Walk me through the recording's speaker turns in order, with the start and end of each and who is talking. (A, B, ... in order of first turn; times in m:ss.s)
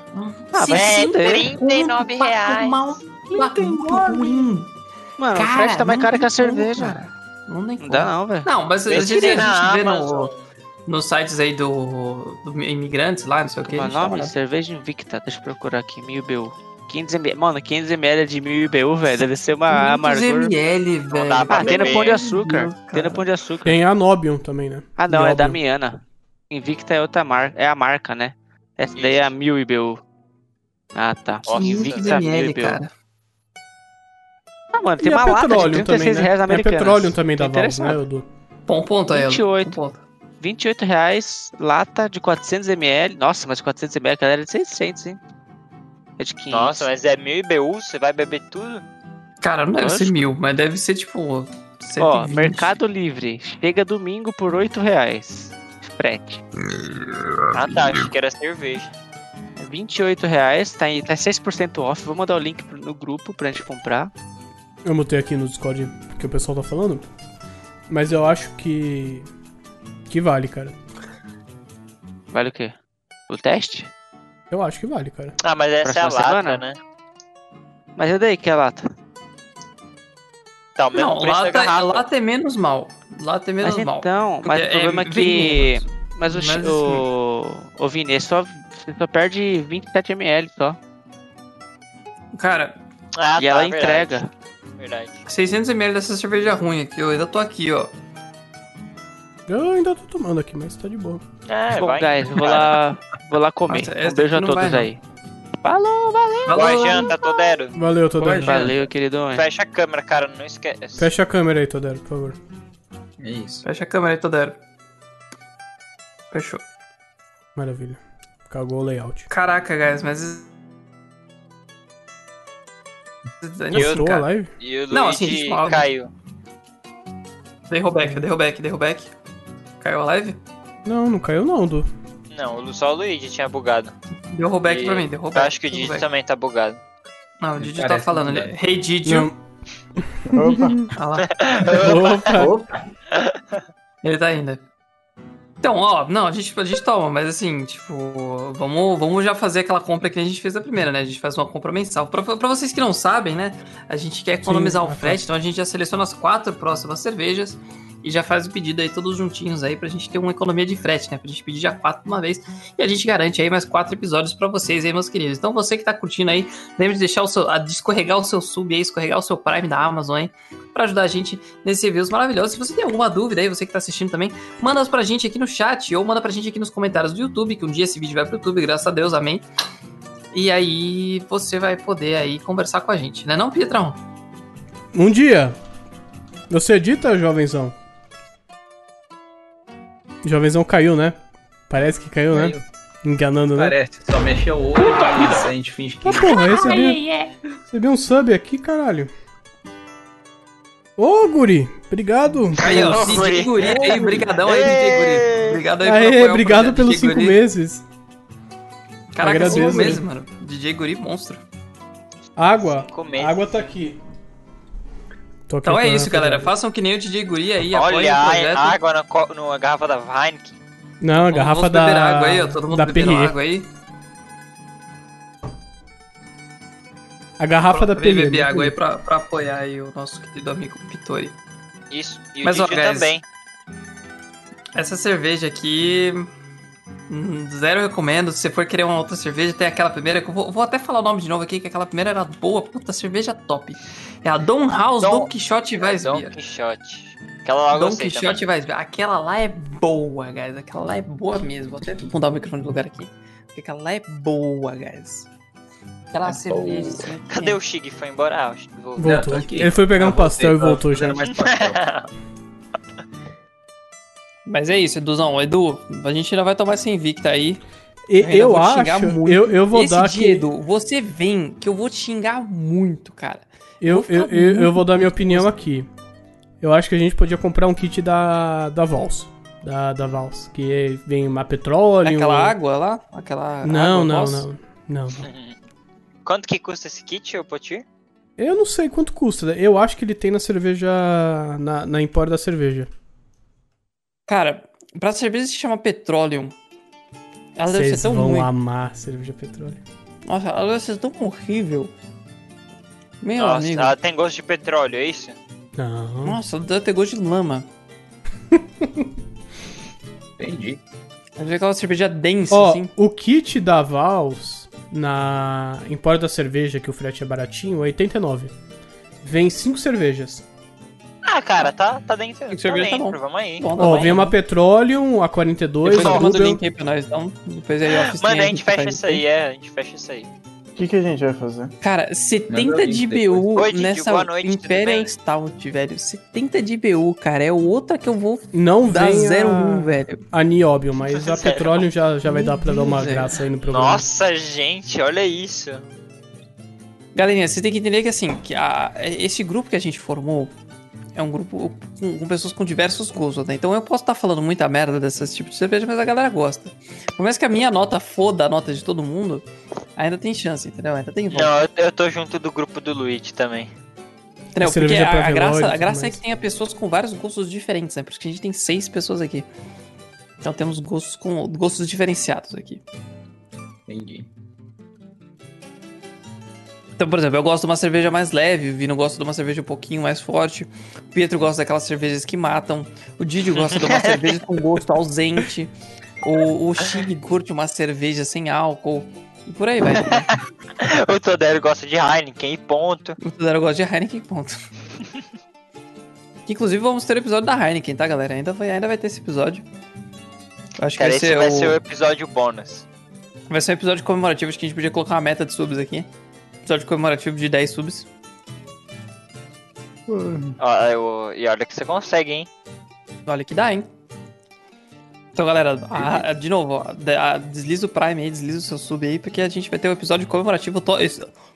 0:00.1-0:04.7 A
0:00.5-0:01.5 B
0:00.6-0:02.9 C
0:03.6-0:04.0 B
0:05.2-0:07.0 B
0:05.4-0:10.3 A
0:07.8-0:08.5 B
0:08.9-0:10.4 C
0:10.9-0:14.3 A
0:13.6-0:20.5 B
0:19.7-0:23.3 A
0:21.1-0:22.2 C
0:21.5-0:23.8 B
0:23.6-0:25.6 D
0:25.0-0:30.0 B
0:29.0-0:29.3 C
0:31.0-0:32.8 B
0:31.5-0:32.3 C
0:31.6-0:32.9 A
0:34.7-0:38.0 B
0:35.0-0:38.3 D
0:38.7-0:40.0 A
0:39.1-0:39.8 B
0:40.4-0:45.2 B
0:46.2-0:46.9 B
0:46.5-0:48.8 C
0:49.4-0:52.7 A
0:49.8-0:50.2 B
0:52.0-0:56.4 B
0:56.7-0:58.0 A
0:57.5-0:58.9 C
0:59.6-1:04.1 B
1:04.8-1:07.1 D
1:07.9-1:09.3 D
1:10.1-1:10.8 D
1:12.3-1:12.8 B
1:13.3-1:13.9 B
1:14.5-1:15.4 D
1:15.4-1:16.8 C
1:15.8-1:16.6 B
1:18.0-1:18.9 B
1:20.8-1:22.1 C
1:20.9-1:27.1 A
1:23.6-1:30.8 B
1:32.3-1:32.8 A
1:33.2-1:34.2 C
1:33.4-1:34.3 B
1:34.8-1:35.2 C
1:35.2-1:37.9 A
1:39.5-1:41.2 D
1:41.5-1:42.8 C
1:41.7-1:45.0 B
1:43.7-1:44.9 A
1:45.6-1:47.1 B
1:46.5-1:47.1 A
1:46.5-1:47.8 C
1:47.8-1:48.8 D
1:48.2-1:49.4 B
1:48.2-1:48.7 E
1:49.3-1:51.1 C
1:51.0-1:52.4 D
1:53.2-1:53.6 E
1:53.6-1:54.6 A
1:56.3-1:56.6 A
1:57.6-1:59.3 D
1:59.3-2:00.5 A
2:03.4-2:04.3 A
2:03.7-2:04.5 D
2:03.7-2:06.1 C
2:04.9-2:05.9 A
2:07.7-2:09.1 A
2:09.8-2:10.4 A
2:10.8-2:11.9 D
2:12.3-2:13.9 C
2:14.3-2:16.1 A
2:14.7-2:16.8 C
2:17.4-2:19.3 A
2:17.6-2:18.6 E
2:19.0-2:19.4 D
2:20.3-2:20.9 D
2:20.3-2:20.8 F
2:21.0-2:21.3 A
2:21.3-2:22.4 C
2:21.7-2:22.5 D
2:22.3-2:22.7 E
2:24.0-2:24.6 A
2:25.6-2:59.4 A
2:34.4-2:35.3 D
3:00.3-3:04.0 A
3:04.9-3:05.6 D
3:06.5-3:07.7 D
3:10.2-3:11.2 D
3:11.7-3:13.8 D
3:12.3-3:12.6 E
3:13.6-3:16.7 E
3:16.0-3:17.0 D
3:16.2-3:17.3 A
3:17.7-3:19.1 D
3:21.0-3:23.1 D
3:22.6-3:25.6 C
3:22.6-3:27.4 A
3:25.8-3:27.8 D
3:29.1-3:31.4 A
3:29.2-3:30.0 D
3:32.4-3:34.0 D
3:32.6-3:33.7 C
3:35.5-3:36.5 D
3:35.6-3:38.8 A
3:37.7-3:40.6 C
3:41.0-3:43.4 D
3:41.2-3:43.7 A
3:47.4-3:48.7 D
3:47.7-3:51.4 A
3:51.9-3:53.2 C
3:52.4-3:53.1 A
3:54.7-3:56.3 A
3:57.1-4:06.3 A
4:05.0-4:08.4 C
4:07.7-4:15.3 A
4:16.1-4:17.6 A
4:16.3-4:17.0 E
4:17.3-4:19.2 C
4:19.0-4:21.3 D
4:19.0-4:22.0 E
4:21.4-4:22.1 C
4:24.5-4:27.6 A
4:28.1-4:30.5 D
4:28.2-4:35.5 A
4:33.8-4:35.9 D
4:36.6-4:42.6 D
4:42.0-4:44.5 A
4:43.6-4:45.3 D
4:45.2-4:45.5 C
4:46.2-4:47.8 C
4:48.4-4:52.9 D
4:54.3-4:56.6 A
4:57.6-4:58.5 A
4:57.7-4:59.8 D
5:00.3-5:01.9 A
5:03.2-5:03.9 A
5:03.4-5:05.4 C
5:05.8-5:06.4 D
5:06.2-5:07.7 A
5:08.5-5:09.1 D
5:10.4-5:10.8 E
5:11.4-5:12.9 A
5:12.5-5:18.5 D
5:19.2-5:20.4 D
5:21.2-5:24.0 C
5:22.5-5:24.4 A
5:23.8-5:26.6 D
5:25.8-5:29.2 A
5:25.9-5:26.3 C
5:28.0-5:30.3 C
5:30.8-5:31.7 F
5:31.8-5:40.2 A
5:32.5-5:33.5 E
5:33.6-5:35.1 C
5:38.5-5:44.0 D
5:41.2-5:41.9 C
5:42.2-5:43.3 A
5:43.6-5:45.8 C
5:47.2-5:50.5 A
5:51.2-6:01.5 A
6:01.3-6:03.7 C
6:04.6-6:09.5 A
6:04.6-6:06.2 D
6:10.4-6:12.8 A
6:13.9-6:14.3 E
6:17.0-6:30.3 A
6:23.6-6:24.4 C
6:30.0-6:33.2 C
6:33.2-6:34.6 A
6:36.5-6:39.6 A
6:40.8-6:41.8 A
6:41.0-6:42.9 C
6:43.5-6:46.1 A
6:46.6-6:48.1 A
6:50.1-6:50.6 F
6:50.6-6:52.5 C
6:53.3-6:53.9 A
6:55.4-7:01.3 A